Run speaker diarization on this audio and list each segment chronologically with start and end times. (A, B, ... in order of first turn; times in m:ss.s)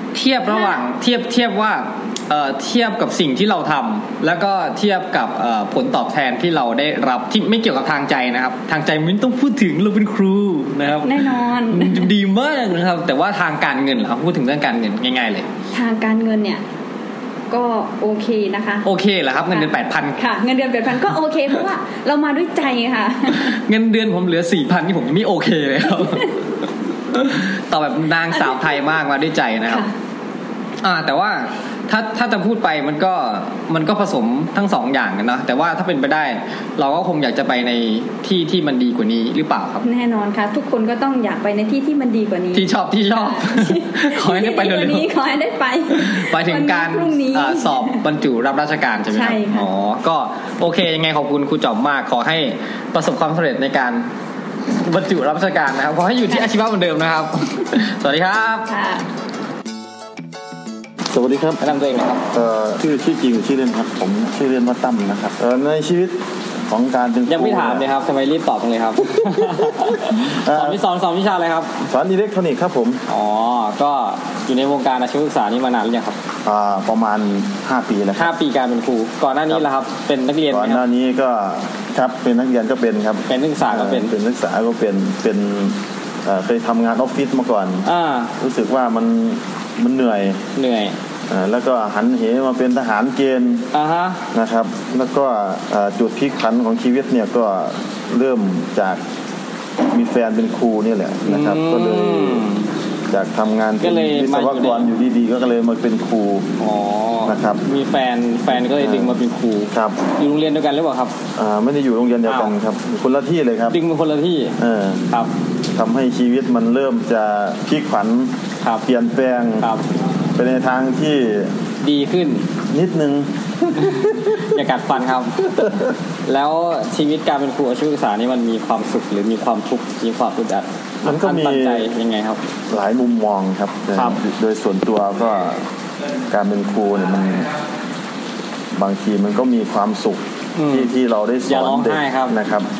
0:00.1-0:11.2 A
0:00.4-0:00.8 B
0:11.0-0:12.1 B
0:11.7-0:15.4 A
0:15.7-0:16.6 B
0:17.5-0:18.8 B
0:18.8-0:20.2 A
0:19.5-0:23.6 B
0:23.5-0:26.2 A
0:26.0-0:26.3 B
0:27.2-0:29.8 A
0:28.4-0:28.8 B
0:29.6-0:29.9 B
0:30.8-0:39.8 A
0:39.8-0:48.0 B
0:42.5-0:45.0 A
0:46.0-0:54.1 A
0:49.1-0:49.7 B
0:54.8-0:58.7 A
0:58.7-0:59.0 B
1:01.1-1:01.6 C
1:01.6-1:02.2 A
1:02.3-1:07.8 C
1:07.3-1:09.9 A
1:09.1-1:10.8 C
1:10.5-1:11.8 A
1:11.9-1:13.0 C
1:13.1-1:16.2 A
1:16.4-1:18.3 C
1:18.2-1:20.8 A
1:20.5-1:27.9 C
1:23.3-1:24.1 A
1:27.8-1:28.3 A
1:28.4-1:30.4 C
1:30.6-1:30.9 A
1:31.3-1:33.6 C
1:33.7-1:34.2 A
1:34.3-1:39.0 C
1:39.9-1:42.4 C
1:41.3-1:42.6 A
1:43.1-1:46.5 C
1:43.8-1:44.9 A
1:46.6-1:51.1 A
1:47.2-1:47.6 C
1:48.5-1:50.0 C
1:51.4-1:53.8 C
1:52.2-1:52.5 A
1:53.7-1:54.6 A
1:54.6-1:55.0 C
1:55.7-1:59.7 C
2:00.4-2:01.5 C
2:01.8-2:02.4 A
2:02.7-2:04.6 C
2:04.5-2:05.3 A
2:05.4-2:05.9 C
2:06.2-2:12.4 A
2:11.0-2:11.9 C
2:12.7-2:15.6 C
2:16.3-2:17.5 C
2:18.7-2:22.7 C
2:20.6-2:20.9 A
2:21.5-2:22.3 A